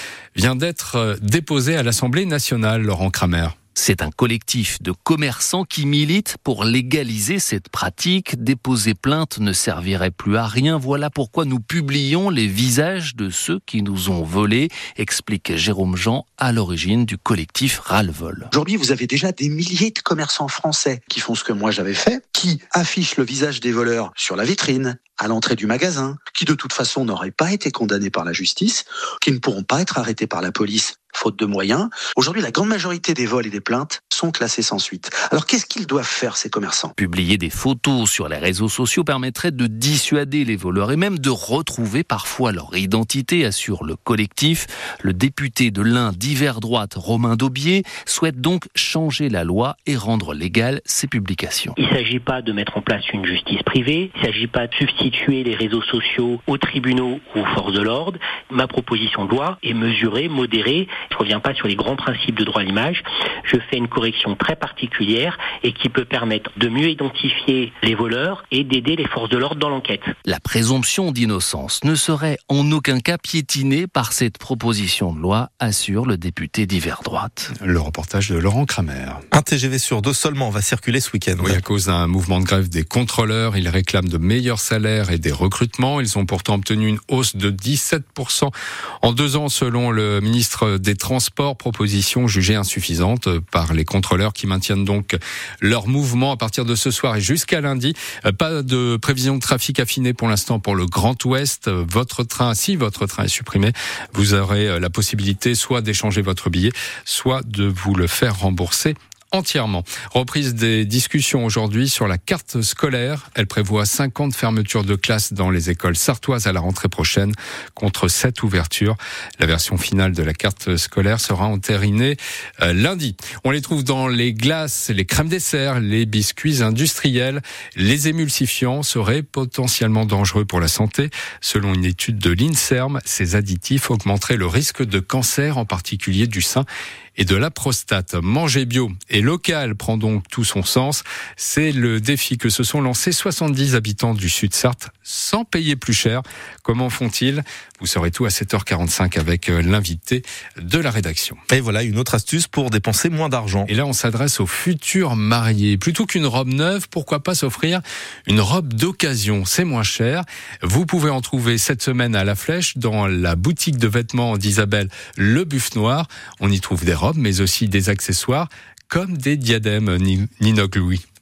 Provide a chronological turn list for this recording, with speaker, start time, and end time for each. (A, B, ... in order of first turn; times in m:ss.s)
0:00.3-0:03.6 A
0:03.8-0:18.5 B
0:18.5-0:36.9 C
0:37.0-0:51.8 B
0:51.8-1:10.1 D
1:10.2-1:17.5 B
1:17.6-1:19.2 A
1:19.3-1:21.6 E
1:21.4-2:31.4 A
2:31.5-2:33.7 E
2:33.7-2:51.0 A